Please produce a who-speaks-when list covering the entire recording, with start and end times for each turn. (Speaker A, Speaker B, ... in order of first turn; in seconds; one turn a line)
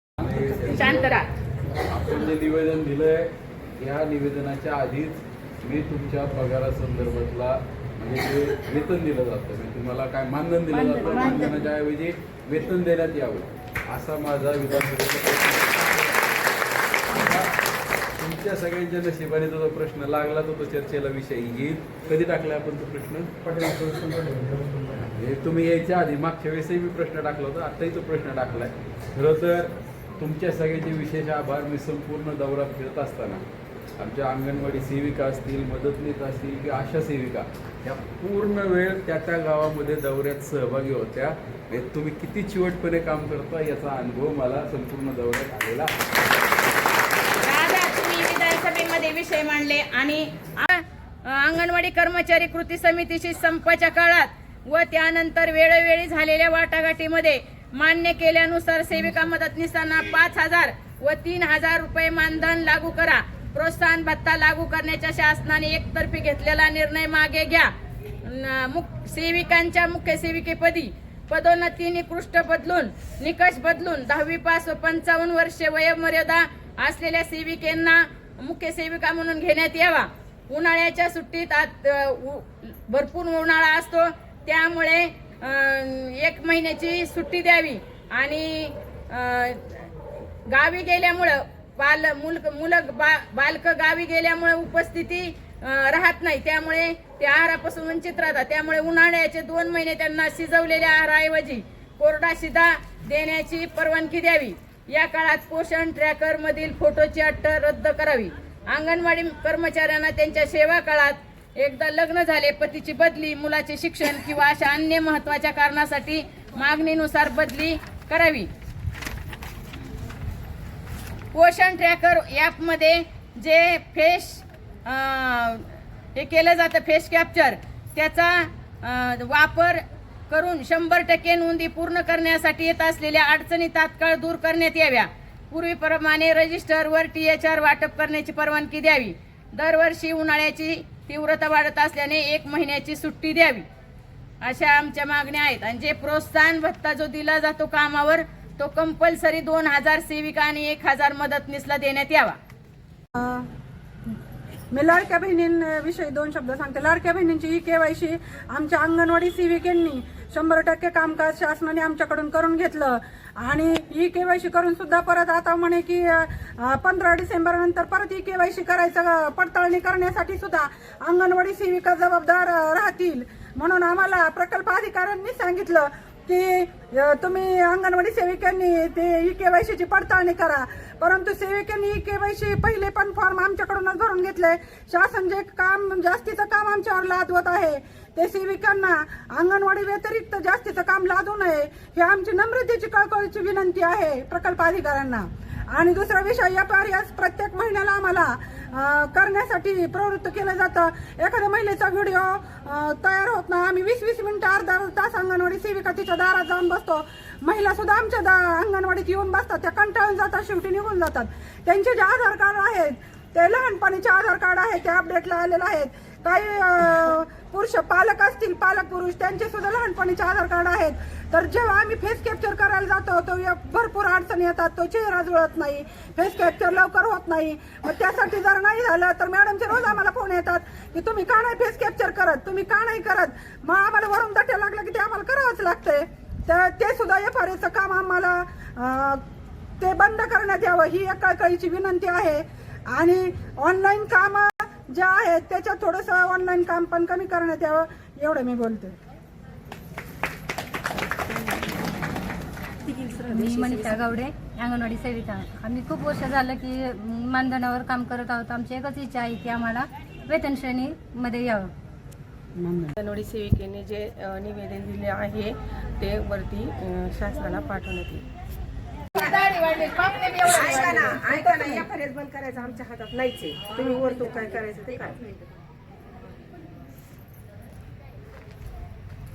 Speaker A: 0.2-1.1
Speaker B: 0.7-1.3
Speaker A: 1.9-15.9
Speaker C: 10.7-11.5
Speaker A: 17.1-17.5
Speaker A: 18.2-24.0
Speaker A: 25.1-33.4
Speaker A: 34.0-45.9
Speaker B: 47.4-67.7
Speaker B: 68.2-89.8
Speaker B: 90.5-118.5
Speaker B: 121.3-143.6
Speaker B: 144.4-152.4
Speaker D: 153.2-153.4
Speaker D: 154.7-239.2
Speaker D: 239.8-248.9
Speaker E: 252.9-253.9
Speaker C: 253.1-261.7
Speaker D: 262.6-262.9
Speaker E: 263.0-268.2
Speaker B: 269.1-271.9
Speaker E: 270.5-275.2